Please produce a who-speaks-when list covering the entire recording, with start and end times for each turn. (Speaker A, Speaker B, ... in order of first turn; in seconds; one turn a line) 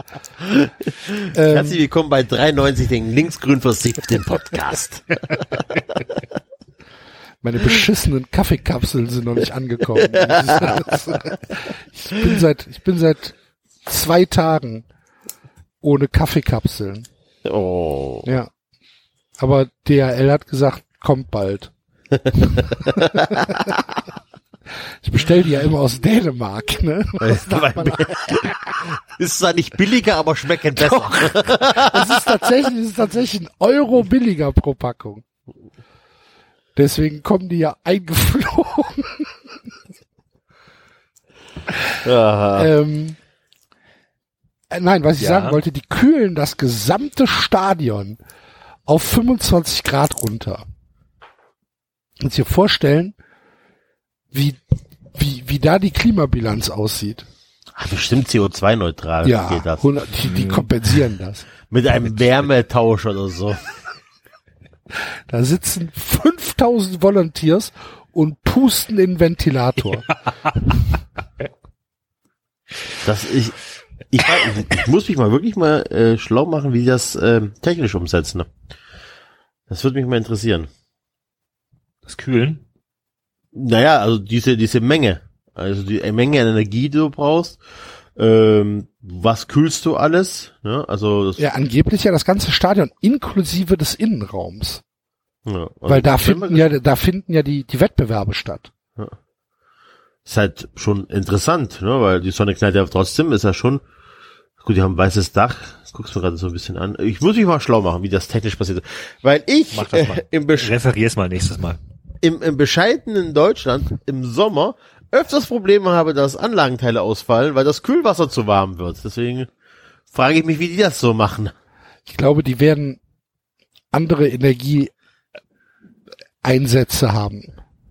Speaker A: 0.4-5.2
Speaker B: 1.3-1.8
Speaker B: 7.4-14.8
Speaker A: 10.0-10.9
Speaker B: 15.8-17.1
Speaker A: 17.4-18.3
Speaker B: 18.2-18.5
Speaker B: 19.4-21.7
Speaker B: 22.3-23.8
Speaker A: 22.8-23.3
Speaker B: 25.0-28.5
Speaker A: 27.2-32.4
Speaker B: 30.7-35.2
Speaker B: 36.7-39.3
Speaker A: 42.0-42.7
Speaker B: 42.5-43.2
Speaker B: 44.7-48.2
Speaker C: 45.2-45.6
Speaker B: 48.9-50.6
Speaker B: 52.2-53.1
Speaker B: 54.3-54.6
Speaker B: 55.1-57.3
Speaker A: 57.8-59.8
Speaker B: 59.2-61.5
Speaker C: 60.3-60.6
Speaker A: 61.7-63.7
Speaker B: 65.3-70.1
Speaker A: 73.0-78.5
Speaker A: 79.7-80.7
Speaker C: 82.0-82.6
Speaker A: 83.5-87.6
Speaker A: 88.2-91.4
Speaker B: 91.4-94.8
Speaker A: 95.5-96.7
Speaker B: 95.9-98.7
Speaker A: 100.2-103.8
Speaker A: 104.6-110.7
Speaker C: 109.7-111.8
Speaker A: 112.2-119.5
Speaker A: 120.1-121.5
Speaker B: 122.1-123.0
Speaker B: 123.9-124.9
Speaker B: 126.4-127.5